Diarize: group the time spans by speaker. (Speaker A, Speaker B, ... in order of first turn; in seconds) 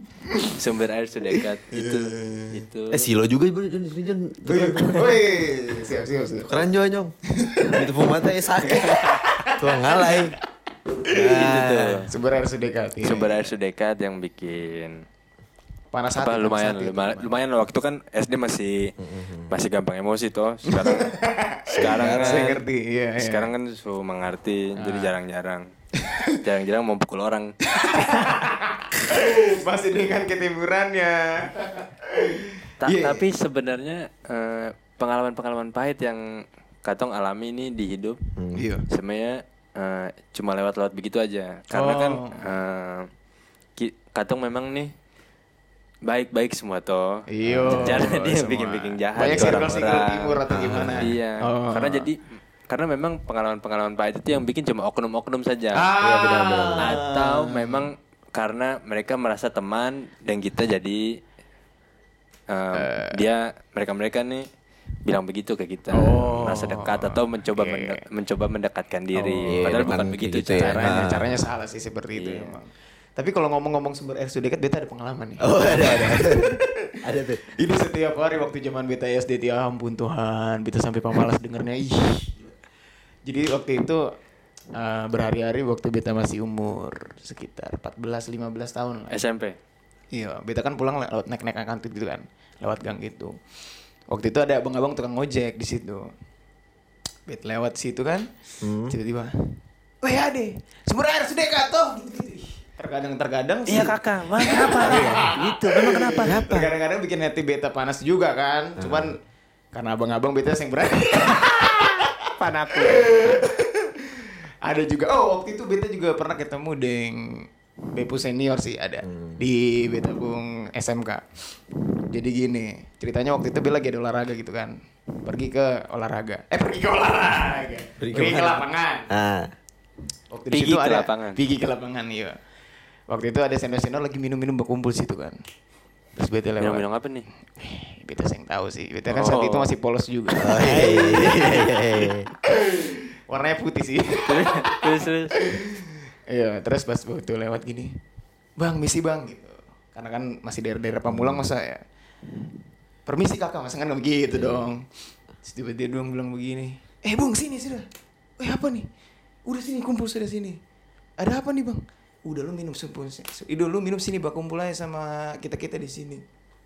Speaker A: 0.3-0.5, 1.7-2.6, 4.4-6.6, 7.4-7.9, 8.6-10.3, 11.0-11.4, 12.1-13.5, 15.9-17.3, 20.7-23.5, 24.8-25.1, 26.0-26.3, 27.7-33.3, 38.5-38.9, 41.7-42.4, 47.3-52.1, 55.8-57.9, 62.7-63.2, 65.9-68.0, 69.1-69.9, 70.6-76.8, 77.5-82.5, 83.3-84.0, 84.8-89.2, 90.1-93.4, 94.1-96.1, 97.3-98.3, 98.8-99.3, 100.0-109.2, 109.7-112.1, 112.9-121.2, 122.1-129.1, 130.3-132.4, 133.1-135.4, 136.2-136.9, 137.6-141.9, 142.5-147.9, 148.6-151.8, 153.1-154.9, 155.4-157.9, 158.4-158.9, 159.5-160.6, 161.2-166.2
Speaker B: 0.5-3.1, 11.3-12.1, 13.0-15.0, 16.2-18.9, 19.5-21.1, 21.7-22.6, 23.2-25.7, 26.4-27.5, 32.8-36.2, 36.8-38.2, 38.9-43.1, 43.8-44.9, 46.1-50.4, 51.0-55.9, 56.8-61.0, 62.5-64.5, 65.0-71.2, 72.2-72.6, 89.1-89.6, 103.7-106.4, 112.4-113.2, 130.5-131.4, 136.6-137.3, 139.1-139.7, 140.6-141.7, 144.3-145.3
Speaker C: 2.9-5.2, 6.5-10.4, 11.1-12.1, 19.0-19.5, 21.8-22.6, 38.4-38.6, 47.4-48.1, 49.3-51.1, 56.0-57.0, 69.5-71.4, 75.4-77.4, 98.6-99.0, 104.8-105.3, 106.2-106.7, 108.8-109.1, 119.1-119.4, 128.0-129.5, 140.4-142.3, 151.1-151.5, 154.3-154.7